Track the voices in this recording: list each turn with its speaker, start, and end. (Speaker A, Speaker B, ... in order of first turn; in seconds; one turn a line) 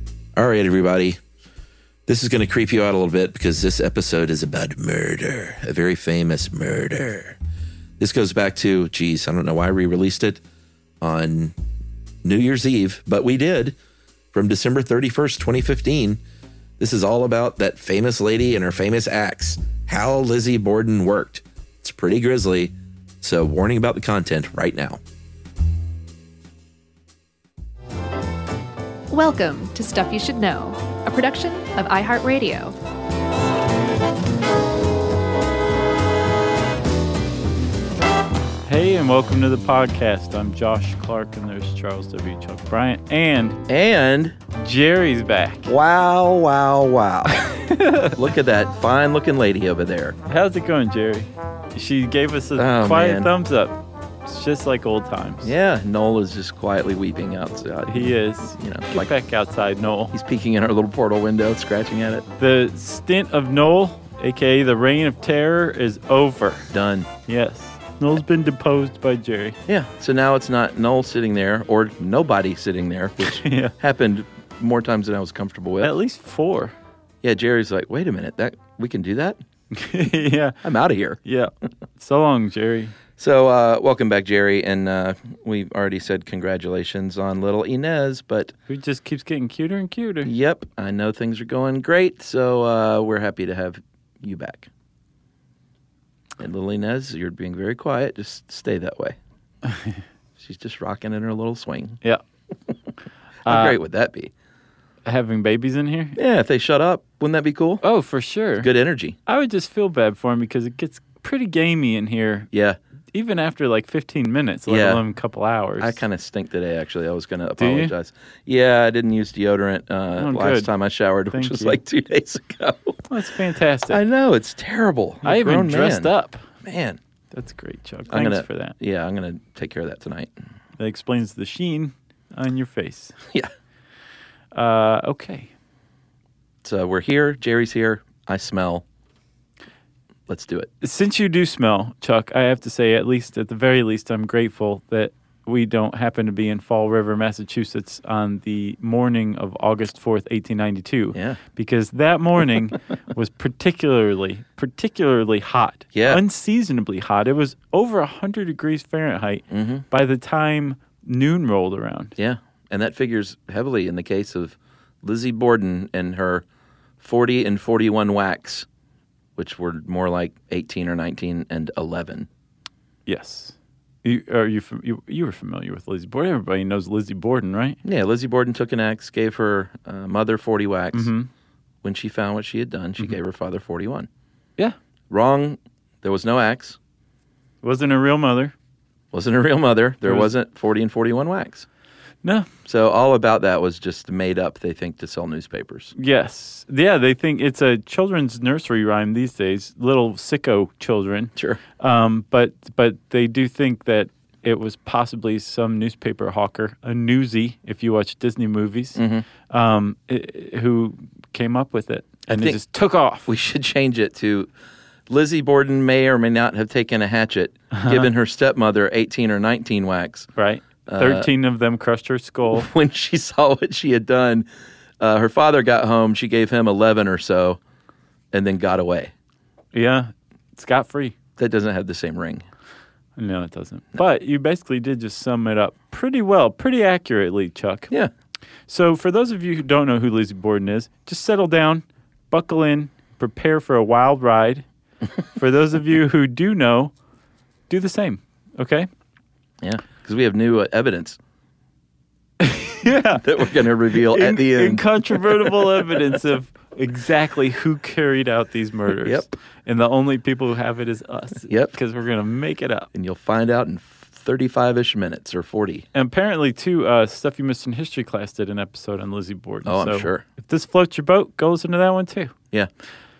Speaker A: 0.3-1.2
Speaker A: 2.1-7.4
Speaker A: 8.0-10.4
Speaker A: 11.0-11.5
Speaker A: 12.2-13.8
Speaker A: 14.3-16.2
Speaker A: 16.8-25.0
Speaker B: 29.1-32.8
Speaker C: 38.6-43.6
Speaker A: 43.7-44.4
Speaker C: 44.6-45.7
Speaker A: 45.7-47.5
Speaker C: 47.3-48.1
Speaker A: 48.1-50.2
Speaker C: 50.3-55.5
Speaker A: 52.6-53.3
Speaker A: 55.4-59.1
Speaker C: 57.9-60.1
Speaker A: 60.1-62.2
Speaker C: 62.4-66.7
Speaker A: 66.7-67.1
Speaker C: 67.3-69.5
Speaker A: 69.7-75.9
Speaker C: 73.2-73.7
Speaker C: 75.8-76.7
Speaker A: 77.2-79.4
Speaker C: 79.7-80.6
Speaker A: 80.6-81.2
Speaker C: 81.2-82.9
Speaker A: 83.2-88.5
Speaker C: 88.7-90.3
Speaker A: 90.2-94.7
Speaker A: 96.4-99.2
Speaker A: 100.4-102.0
Speaker C: 103.5-103.8
Speaker A: 103.5-104.3
Speaker C: 105.0-106.2
Speaker A: 106.2-107.8
Speaker C: 107.8-108.7
Speaker A: 108.6-109.1
Speaker C: 109.3-112.5
Speaker C: 113.1-116.0
Speaker A: 114.7-115.0
Speaker A: 115.8-123.0
Speaker C: 117.6-117.9
Speaker C: 120.2-120.7
Speaker C: 121.3-121.8
Speaker C: 123.1-124.0
Speaker A: 123.9-126.1
Speaker C: 125.2-126.4
Speaker A: 126.6-127.0
Speaker C: 127.3-128.8
Speaker A: 128.1-130.3
Speaker C: 130.8-133.1
Speaker C: 134.5-135.5
Speaker A: 136.6-138.8
Speaker A: 140.3-140.7
Speaker C: 140.8-162.1
Speaker A: 151.1-151.4
Speaker A: 155.9-156.2
Speaker A: 159.5-159.8
Speaker A: 162.2-166.4
Speaker A: 167.0-168.7
Speaker A: 169.4-172.3
Speaker C: 173.1-177.8
Speaker A: 177.8-181.1
Speaker C: 180.9-181.3
Speaker A: 181.8-184.1
Speaker A: 185.1-186.8
Speaker C: 187.6-188.5
Speaker A: 189.1-191.7
Speaker C: 190.0-190.3
Speaker A: 192.6-195.9
Speaker C: 195.9-213.3
Speaker A: 208.9-209.2
Speaker A: 212.3-212.6
Speaker A: 213.3-214.5
Speaker A: 215.1-220.3
Speaker C: 217.7-218.1
Speaker C: 220.3-222.7
Speaker A: 220.9-221.3
Speaker A: 222.5-224.4
Speaker A: 225.0-227.6
Speaker A: 228.3-229.1
Speaker C: 229.7-231.1
Speaker A: 231.4-232.4
Speaker C: 233.2-237.9
Speaker C: 238.7-244.6
Speaker C: 245.3-246.9
Speaker C: 247.7-248.9
Speaker A: 249.6-251.2
Speaker C: 252.4-253.3
Speaker A: 253.2-255.8
Speaker C: 253.9-262.9
Speaker A: 262.9-265.9
Speaker C: 265.9-272.3
Speaker A: 269.6-270.2